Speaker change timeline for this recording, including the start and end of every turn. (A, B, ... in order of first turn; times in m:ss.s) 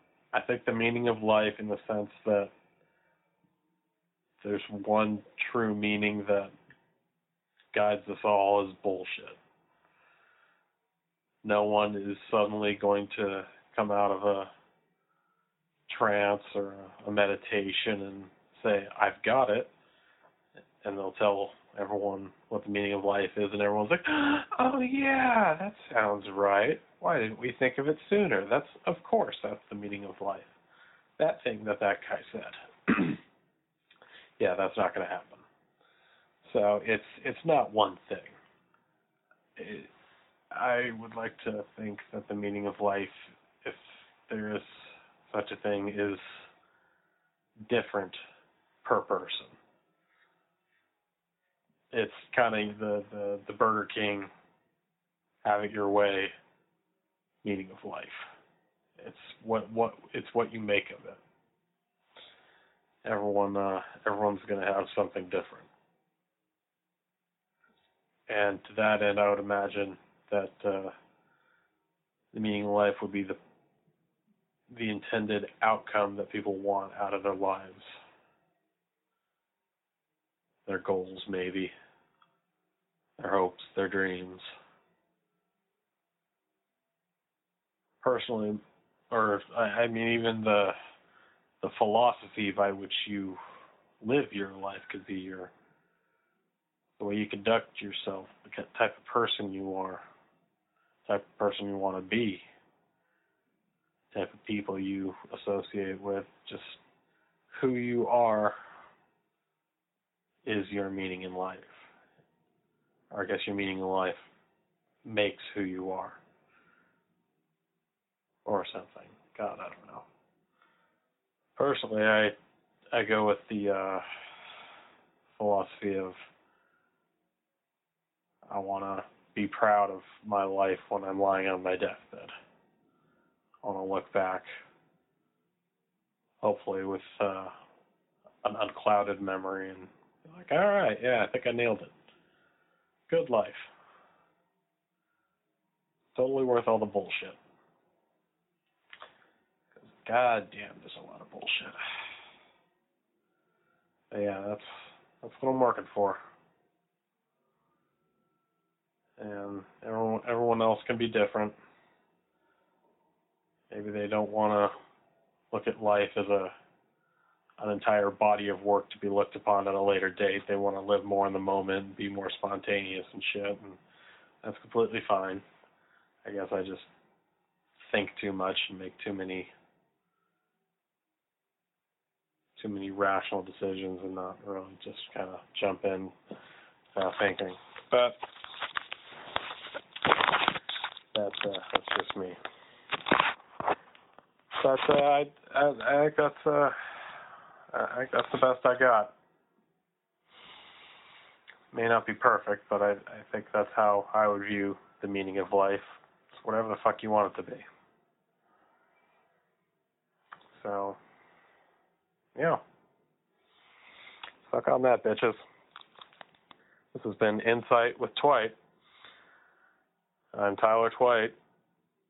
0:00.3-0:02.5 A
0:04.4-0:06.5 A
0:07.7-0:09.4 A
0:11.4-0:14.5 A
0:15.9-0:19.7 A
0:20.8-0:30.5 A
0:31.2-0:33.2 A
0:34.4-0:35.4 A
0:36.4-0:38.3 A
0:39.6-0:39.9 A
0:40.5-0:46.2 A
0:47.7-0:48.2 A
0:48.8-0:49.5 A
0:51.9-0:54.3 A
0:55.4-0:56.3 A
0:57.4-0:58.2 A
0:59.0-1:01.2 A
1:03.0-1:05.7 A
1:08.3-1:10.9 A
1:12.3-1:13.4 A
1:14.7-1:17.9 A
1:20.7-1:21.7 A
1:23.2-1:24.4 A
1:28.0-1:30.7 A
1:31.6-1:33.4 A
1:34.0-1:35.5 A
1:37.0-1:40.0 A
1:41.1-1:42.4 A
1:44.1-1:46.8 A
1:47.5-1:48.6 A
1:50.4-1:51.8 A
1:53.1-1:54.2 A
1:55.0-1:56.2 A
1:58.4-2:00.0 A
2:01.6-2:02.3 A
2:02.9-2:04.0 A
2:05.4-2:06.1 A
2:08.5-2:12.3 A
2:13.6-2:14.5 A
2:16.4-2:17.5 A
2:18.4-2:21.9 A
2:23.1-2:23.6 A
2:26.1-2:27.4 A
2:29.9-2:31.8 A
2:34.1-2:36.2 A
2:39.2-2:41.5 A
2:43.7-2:44.7 A
2:45.5-2:46.5 A
2:47.6-2:53.8 A
2:54.4-2:55.4 A
2:56.2-2:56.9 A
2:57.9-2:59.5 A
3:02.6-3:06.1 A
3:06.9-3:08.2 A
3:11.1-3:12.4 A
3:14.6-3:16.7 A
3:17.7-3:19.1 A
3:21.7-3:27.6 A
3:30.6-3:31.0 A
3:32.4-3:32.6 A
3:34.5-3:35.4 A
3:36.9-3:38.6 A
3:40.3-3:41.4 A